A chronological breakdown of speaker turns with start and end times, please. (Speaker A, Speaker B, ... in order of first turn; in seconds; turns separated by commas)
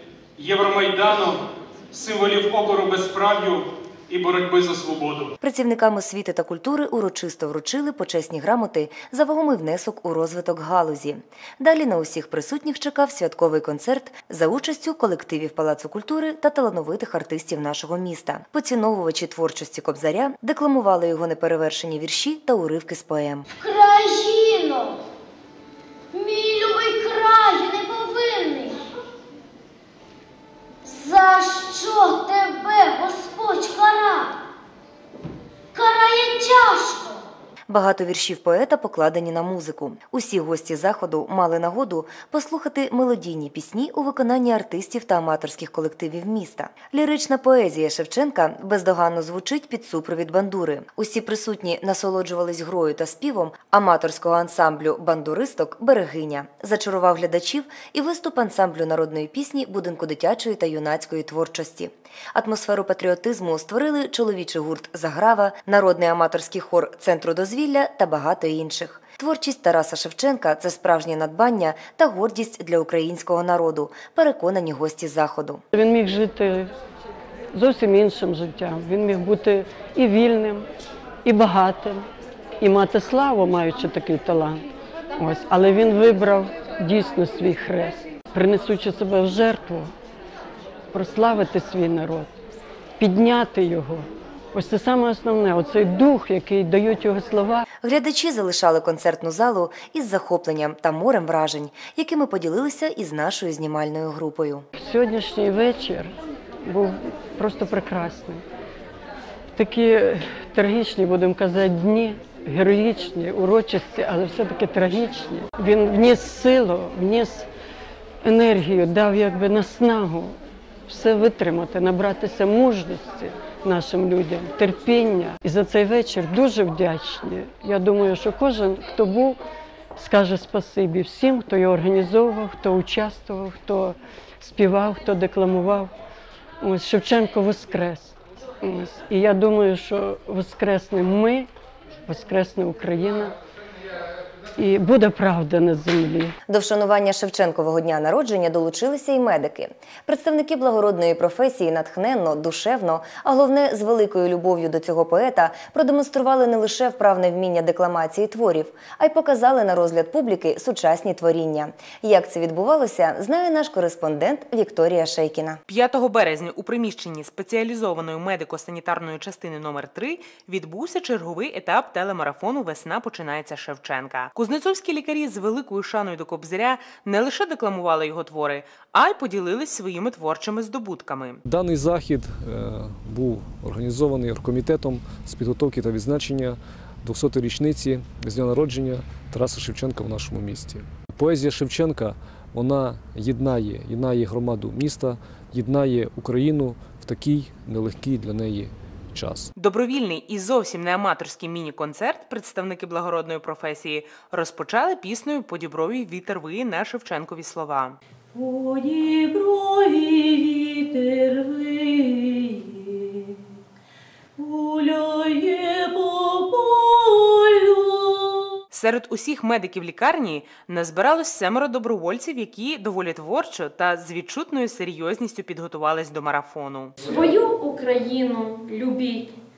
Speaker A: 0.4-5.3, Speaker B: 5.4-23.4, Speaker C: 23.5-25.0, Speaker C: 26.1-28.8, Speaker C: 30.9-34.3, Speaker C: 35.7-37.2, Speaker B: 37.7-75.6, Speaker D: 75.7-76.7, Speaker D: 77.5-80.7, Speaker D: 81.2-82.1, Speaker D: 82.6-84.7, Speaker D: 85.2-89.9, Speaker D: 90.9-92.3, Speaker D: 93.0-97.7, Speaker B: 97.8-104.7, Speaker D: 104.8-108.4, Speaker D: 109.5-117.5, Speaker D: 118.2-129.4, Speaker D: 130.0-135.9, Speaker D: 136.6-141.5, Speaker D: 142.1-143.3, Speaker D: 144.6-146.4, Speaker B: 146.5-165.6, Speaker E: 165.7-181.4, Speaker F: 181.5-199.5, Speaker E: 199.6-208.0, Speaker G: 208.3-213.4, Speaker G: 214.4-218.5, Speaker E: 218.7-226.9, Speaker H: 227.0-229.3